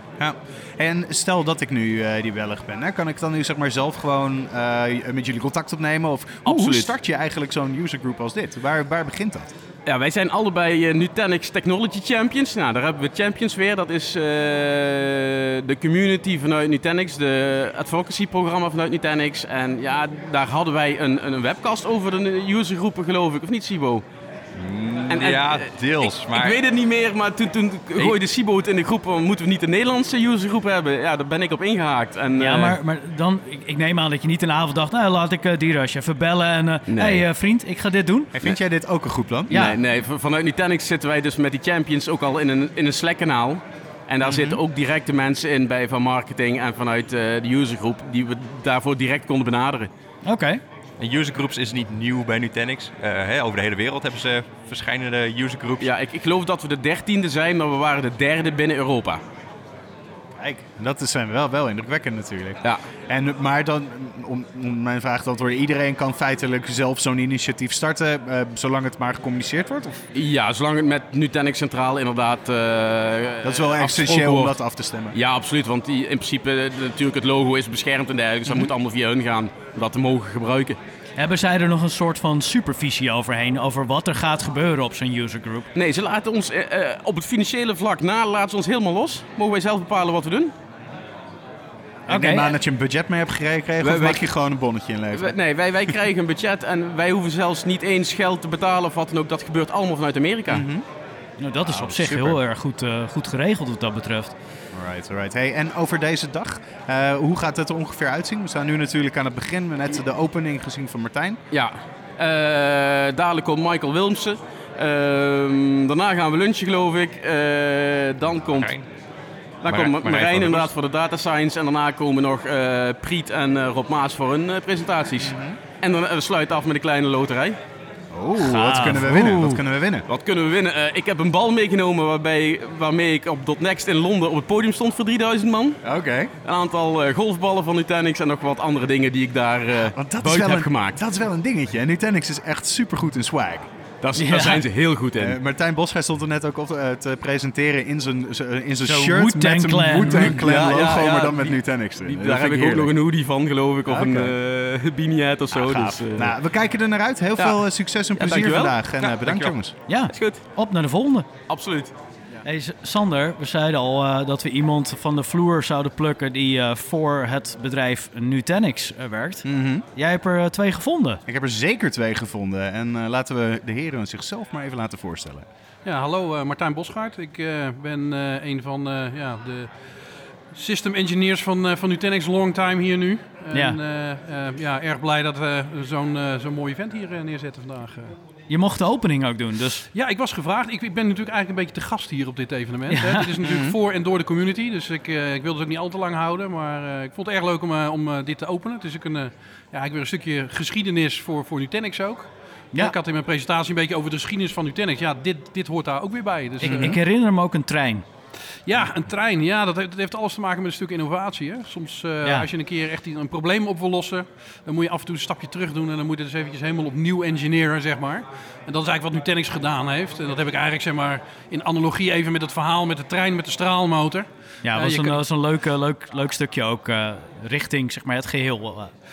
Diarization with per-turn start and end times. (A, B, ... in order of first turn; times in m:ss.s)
0:00.2-0:09.5 A
0:06.4-0:06.9 B
0:09.9-0:24.1 B
0:24.6-0:26.6 C
0:25.1-0:32.8 B
0:32.4-0:38.3 D
0:36.9-0:37.3 B
0:38.3-0:39.5 A
0:39.5-0:39.8 D
0:39.5-0:49.9 B
0:44.2-0:44.6 A
0:50.2-0:50.6 D
0:51.0-0:55.9 C
0:55.8-0:59.2 B
1:00.4-1:10.0 A
1:10.2-1:20.8 B
1:13.4-1:15.2 A
1:21.2-1:25.7 D
1:25.8-1:30.5 B
1:32.1-1:36.0 A
1:32.1-1:32.5 D
1:33.8-1:40.7 B
1:40.5-1:40.9 A
1:41.4-1:44.4 D
1:41.5-1:42.4 A
1:42.0-1:42.3 B
1:44.7-1:51.4 A
1:51.5-1:58.8 B
1:58.2-1:58.9 C
1:59.6-2:07.6 B
1:59.6-2:00.7 C
2:05.2-2:05.6 A
2:08.1-2:10.1 A
2:08.4-2:09.6 D
2:10.1-2:21.0 B
2:15.8-2:16.3 A
2:19.9-2:23.7 A
2:24.0-2:25.4 B
2:24.2-2:24.6 D
2:25.2-2:32.9 A
2:28.8-2:30.6 D
2:30.1-2:36.4 B
2:33.9-2:34.4 A
2:35.5-2:39.8 A
2:37.4-2:40.5 B
2:39.9-2:41.3 D
2:41.5-2:41.9 B
2:42.4-2:51.2 D
2:49.4-2:49.8 A
2:51.3-2:55.4 A
2:55.8-3:08.2 E
3:03.5-3:03.8 D
3:08.5-3:09.9 D
3:09.9-3:27.0 E
3:12.9-3:13.4 D
3:13.4-3:13.8 A
3:26.6-3:28.1 D
3:28.5-3:45.2 E
3:32.2-3:32.5 D
3:44.6-3:48.9 D